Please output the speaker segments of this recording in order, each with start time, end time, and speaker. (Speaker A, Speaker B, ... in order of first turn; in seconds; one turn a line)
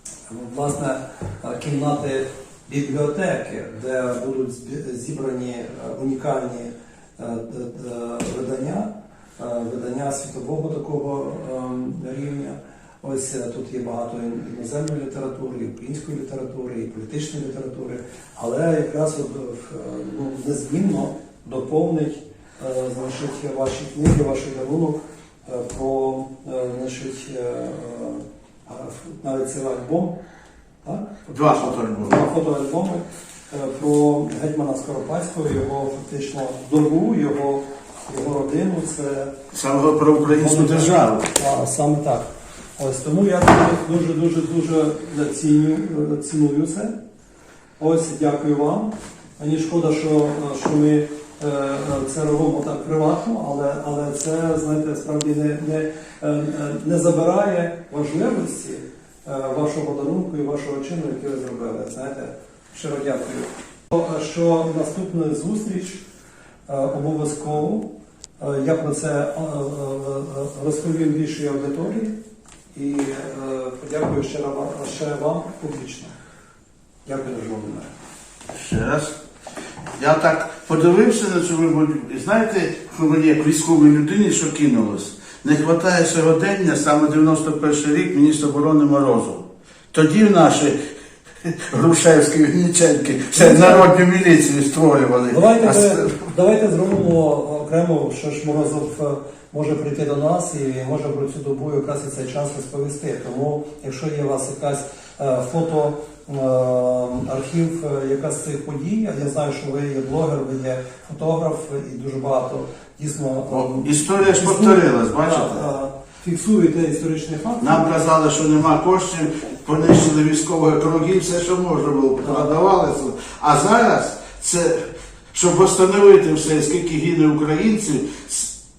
Speaker A: 0.3-30.1
Speaker A: 30.8-39.3
Speaker B: 31.3-32.2
Speaker B: 39.5-41.3
Speaker A: 40.2-46.9
Speaker A: 47.8-66.0
Speaker A: 66.7-72.2
Speaker A: 72.7-76.1
Speaker A: 77.0-77.9
Speaker B: 78.5-79.2
Speaker B: 80.0-90.8
Speaker B: 91.4-96.1
Speaker A: 93.3-93.9
Speaker A: 95.3-117.9
Speaker B: 113.5-115.6
Speaker B: 117.6-128.6